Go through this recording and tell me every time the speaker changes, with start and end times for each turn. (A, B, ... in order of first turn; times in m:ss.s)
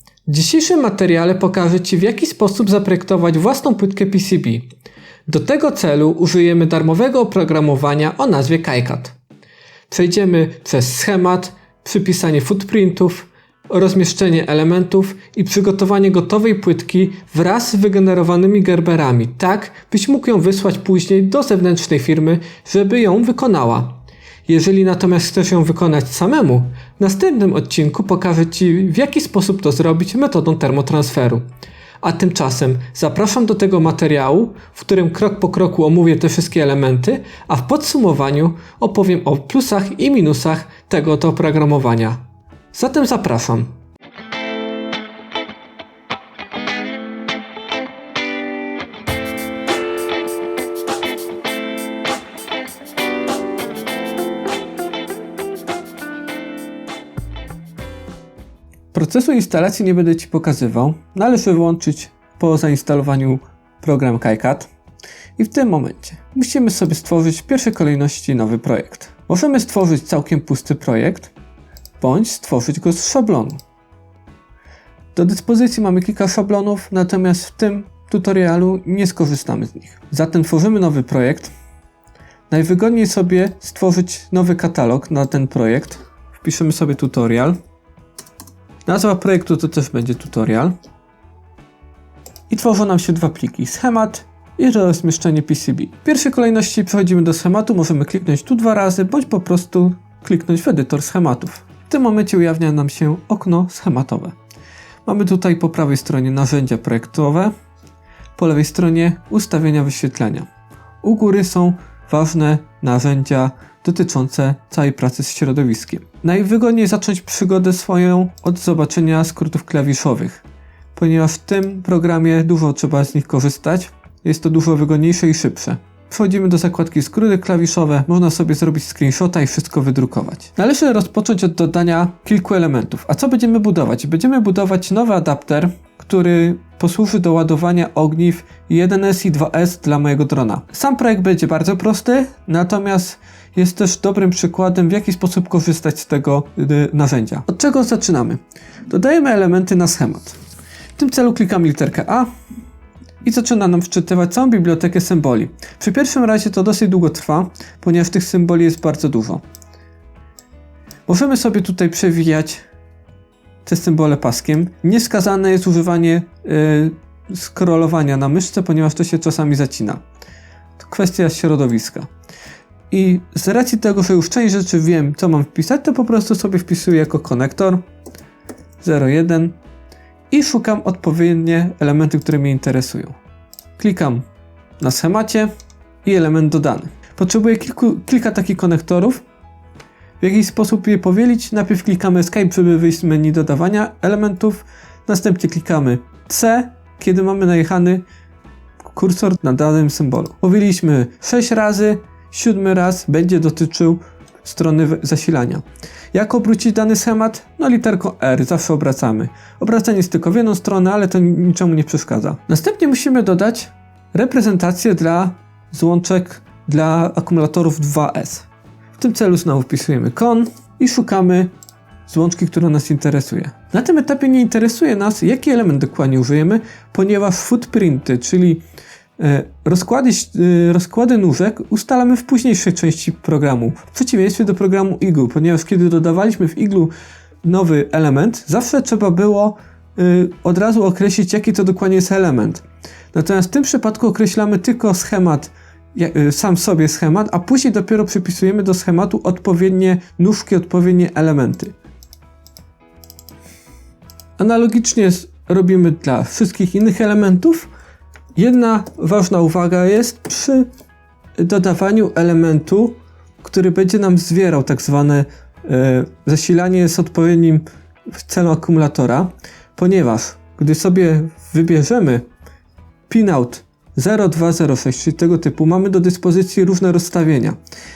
0:00.3-0:04.7 A
0:05.3-0:09.1 A
0:09.9-0:31.4 A
0:32.0-0:43.8 A
0:58.9-1:04.7 A
1:05.4-1:11.3 A
1:12.0-1:13.6 A
1:15.1-1:21.5 A
1:22.5-1:27.6 A
1:28.8-1:30.7 A
1:32.5-1:44.3 A
1:45.0-1:47.5 A
1:48.4-1:50.5 A
1:51.0-2:00.4 A
2:00.9-2:30.4 A
2:31.0-2:32.3 A
2:33.2-2:39.4 A
2:41.1-2:42.6 A
2:43.6-2:50.0 A
2:50.8-2:52.1 A
2:52.9-2:57.8 A
2:58.8-2:59.6 A
3:00.3-3:03.2 A
3:03.8-3:04.2 A
3:04.8-3:05.5 A
3:06.0-3:09.2 A
3:10.2-3:18.0 A
3:18.9-3:41.5 A
3:42.1-3:48.6 A
3:49.2-3:56.9 A
3:57.4-4:11.7 A
4:14.4-4:17.7 A
4:18.3-4:20.7 A
4:21.4-4:27.6 A
4:28.1-4:32.2 A
4:33.1-4:37.6 A